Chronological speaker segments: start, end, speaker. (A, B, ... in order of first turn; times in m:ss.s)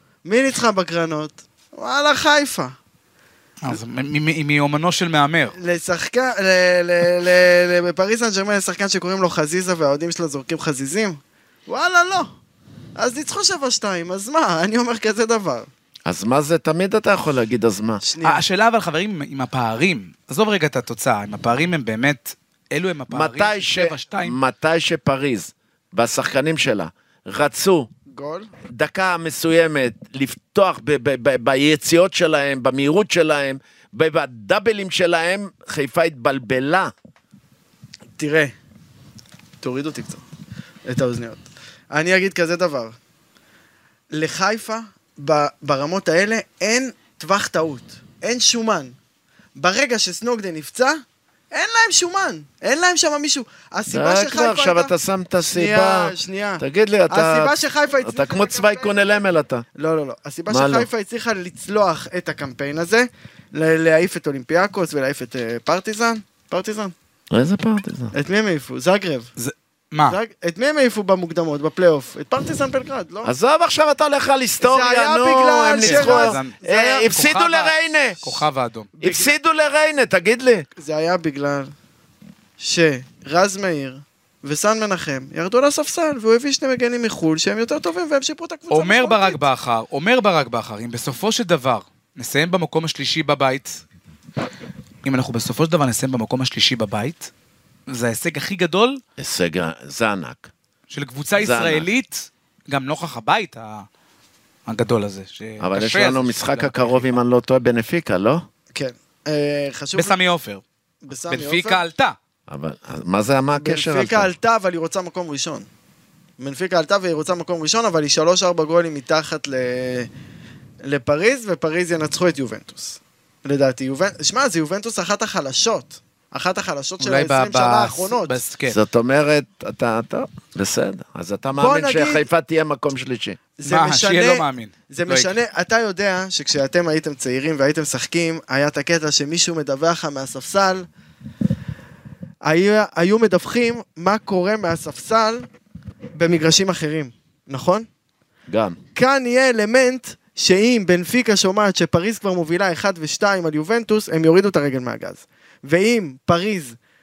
0:00.2-0:02.7 A
0:03.6-0:05.6 B
0:05.6-0:12.3 A
0:13.0-0:15.7 A
0:16.0-0:18.0 C
0:18.0-0:18.4 A
0:18.2-0:24.4 B
0:23.1-0:27.9 C
0:28.1-0:28.5 A
0:28.7-0:36.9 C
0:38.2-0:38.5 A
0:39.6-0:40.2 A
0:40.9-0:43.0 A
0:44.1-0:48.9 A
0:49.6-0:54.9 A
0:53.9-0:59.6 C
0:55.4-0:59.2 A
0:59.8-1:06.9 A
1:00.5-1:00.9 C
1:07.3-1:08.1 C
1:08.1-1:09.3 A
1:09.4-1:10.2 B
1:10.1-1:13.3 A
1:13.2-1:18.2 C
1:14.6-1:17.1 A
1:15.8-1:18.9 B
1:19.0-1:19.4 A
1:19.0-1:20.6 C
1:20.8-1:21.7 A
1:22.6-1:29.4 A
1:28.7-1:33.8 B
1:35.0-1:37.3 B
1:37.9-1:39.0 B
1:39.2-1:40.5 C
1:40.9-1:43.9 B
1:41.4-1:41.9 C
1:44.6-1:47.2 B
1:45.6-1:48.4 C
1:48.7-1:50.1 A
1:49.9-1:50.6 B
1:51.0-1:51.8 A
1:51.3-1:52.2 B
1:52.5-1:54.3 C
1:53.5-1:55.7 A
1:56.4-2:00.1 A
2:00.8-2:08.4 A
2:07.0-2:08.8 B
2:08.7-2:13.4 C
2:11.6-2:12.3 A
2:13.6-2:20.8 A
2:13.6-2:15.3 B
2:22.4-2:25.5 A
2:26.2-2:27.9 A
2:28.5-2:28.8 C
2:28.9-2:36.8 A